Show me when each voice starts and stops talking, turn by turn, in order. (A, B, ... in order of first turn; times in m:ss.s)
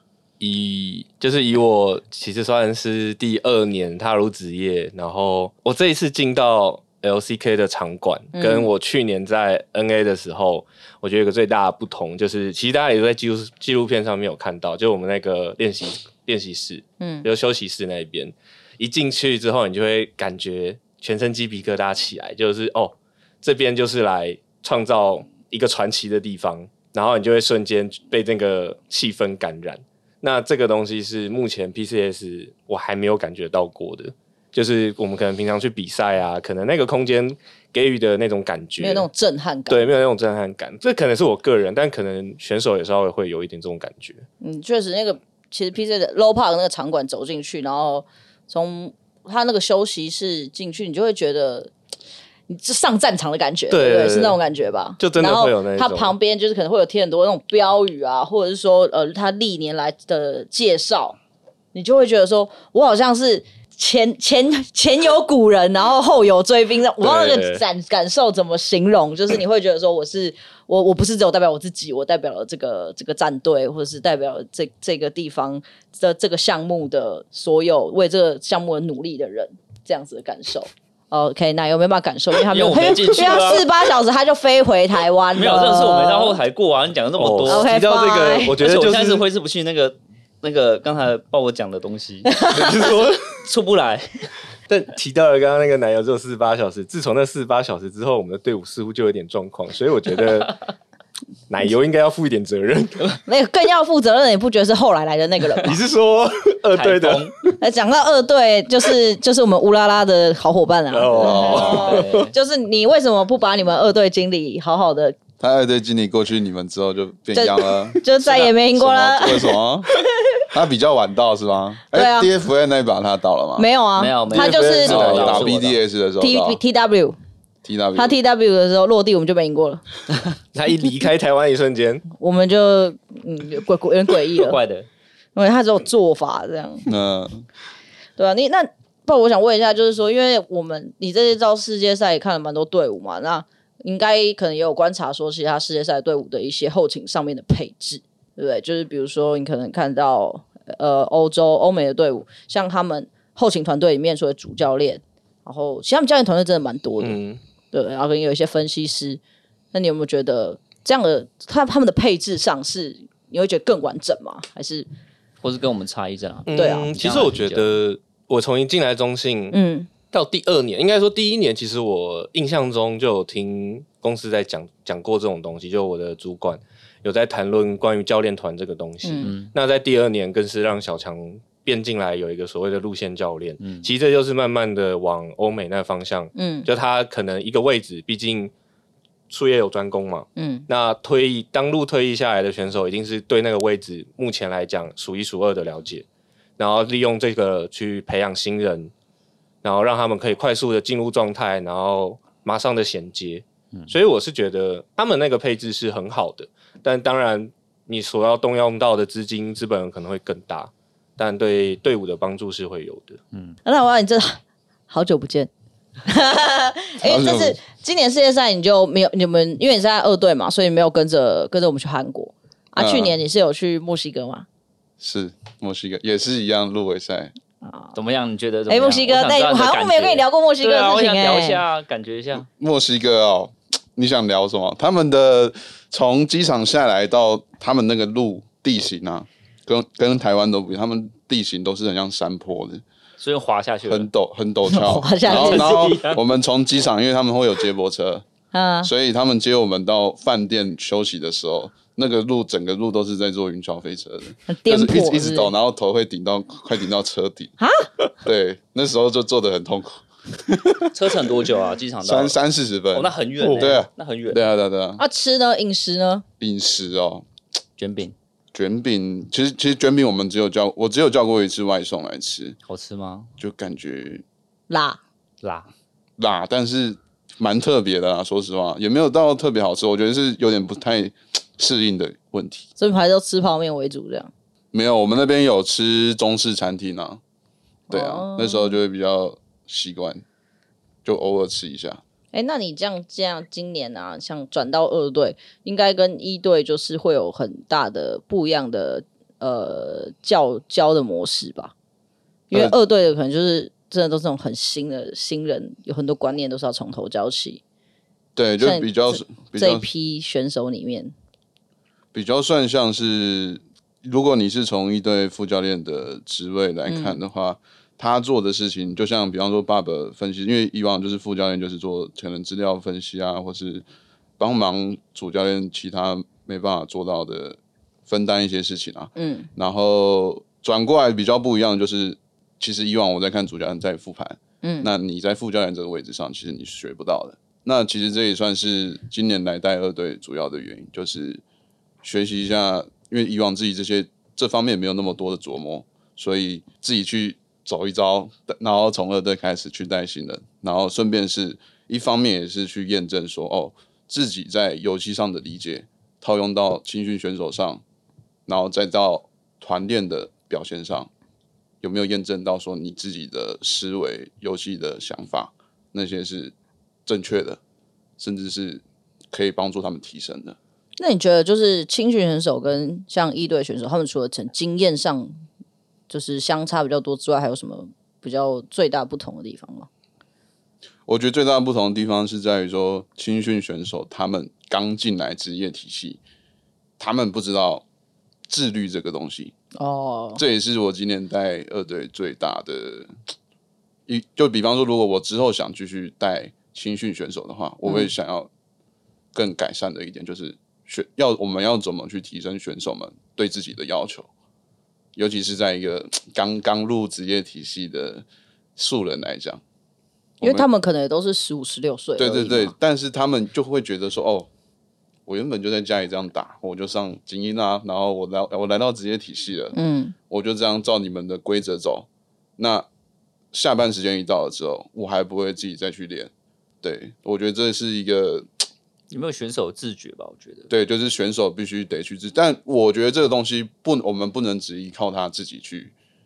0:00.4-0:39.1 A
0:08.3-0:08.7 B
0:17.0-0:17.3 B
0:38.8-0:39.9 B
0:39.7-0:44.2 A
0:44.4-0:51.7 B
0:52.5-1:01.2 B
0:53.7-0:54.4 A
0:55.0-0:56.1 A
1:01.7-1:26.4 B
1:07.0-1:07.6 A
1:22.5-1:23.7 C
1:25.3-1:27.7 C
1:27.2-1:29.2 A
1:27.4-1:28.6 B
1:28.6-1:34.2 C
1:32.3-1:32.6 B
1:32.4-1:33.2 A
1:34.7-1:40.6 A
1:41.5-1:43.2 A
1:43.2-1:45.8 B
1:45.6-1:47.5 A
1:46.7-1:47.3 C
1:47.6-1:55.2 B
1:50.9-1:52.2 A
1:51.2-1:51.9 D
1:51.5-1:52.3 C
1:55.4-1:59.9 D
1:57.3-1:59.5 B
2:00.5-2:03.7 D
2:01.9-2:02.3 B
2:03.6-2:05.4 B
2:04.0-2:05.8 C
2:04.3-2:06.6 D
2:04.8-2:05.4 A
2:06.2-2:07.2 B
2:07.6-2:08.2 D
2:07.9-2:09.8 B
2:10.5-2:12.0 A
2:12.2-2:14.6 B
2:14.4-2:14.9 C
2:15.4-2:16.9 B
2:16.9-2:17.4 D
2:18.2-2:37.2 B
2:37.0-2:37.4 A
2:37.7-2:39.2 B
2:39.7-2:44.8 B
2:45.4-2:47.8 C
2:46.4-2:49.6 A
2:46.5-2:46.9 B
2:49.5-2:49.9 B
2:50.1-3:08.5 A
2:59.0-2:59.3 B
2:59.2-2:59.5 C
3:03.6-3:03.9 C
3:06.3-3:06.7 B
3:09.3-3:16.0 A
3:10.4-3:10.7 B
3:16.6-3:18.9 A
3:19.6-3:33.2 A
3:33.6-3:34.4 B
3:34.9-3:35.5 B
3:36.0-3:44.4 B
3:37.0-3:37.6 D
3:42.8-3:43.2 D
3:45.0-3:47.3 D
3:47.6-3:47.9 B
3:47.9-3:52.5 C
3:48.7-3:51.6 B
3:52.4-4:02.8 D
4:03.2-4:04.1 C
4:03.8-4:08.2 D
4:04.7-4:05.9 B
4:05.2-4:06.2 C
4:08.5-4:08.9 B
4:08.8-4:17.5 D
4:14.5-4:15.5 B
4:17.6-4:17.9 B
4:18.2-4:21.4 D
4:20.9-4:22.4 C
4:22.0-4:25.0 D
4:22.9-4:24.4 C
4:25.0-4:26.2 B
4:26.4-4:27.2 D
4:27.8-4:28.2 C
4:28.5-4:32.6 D
4:32.7-4:33.3 C
4:33.4-4:34.2 D
4:34.7-4:35.0 B
4:35.4-4:35.7 C
4:36.2-4:42.7 D
4:42.8-4:44.3 B
4:44.7-4:47.2 D
4:47.9-4:48.8 B
4:47.9-4:50.2 D
4:51.0-4:52.0 D
4:52.3-5:01.7 B
5:02.5-5:07.6 B
5:08.4-5:09.9 D
5:08.6-5:11.1 B
5:12.1-5:23.8 D
5:16.9-5:17.2 B
5:24.4-5:41.4 D
5:29.2-5:29.5 B
5:34.6-5:34.9 B
5:42.0-5:57.8 D
5:58.5-6:01.1 D
6:01.8-6:06.5 D
6:07.0-6:07.6 D
6:08.2-6:10.6 D
6:11.0-6:15.3 B
6:16.1-6:19.9 B
6:21.1-6:26.2 D
6:27.0-6:27.8 D
6:28.5-6:29.5 D
6:29.8-6:30.4 B
6:30.4-6:33.1 D
6:34.1-6:38.5 D
6:39.3-6:44.3 D
6:45.1-6:48.2 D
6:48.8-6:49.6 D
6:50.4-6:52.7 B
6:52.2-6:54.5 D
6:55.3-6:59.8 D
6:59.7-7:00.1 B
7:00.3-7:02.1 D
7:02.6-7:02.8 D
7:03.5-7:06.3 D
7:06.8-7:08.6 D
7:09.1-7:10.7 C
7:10.7-7:15.9 D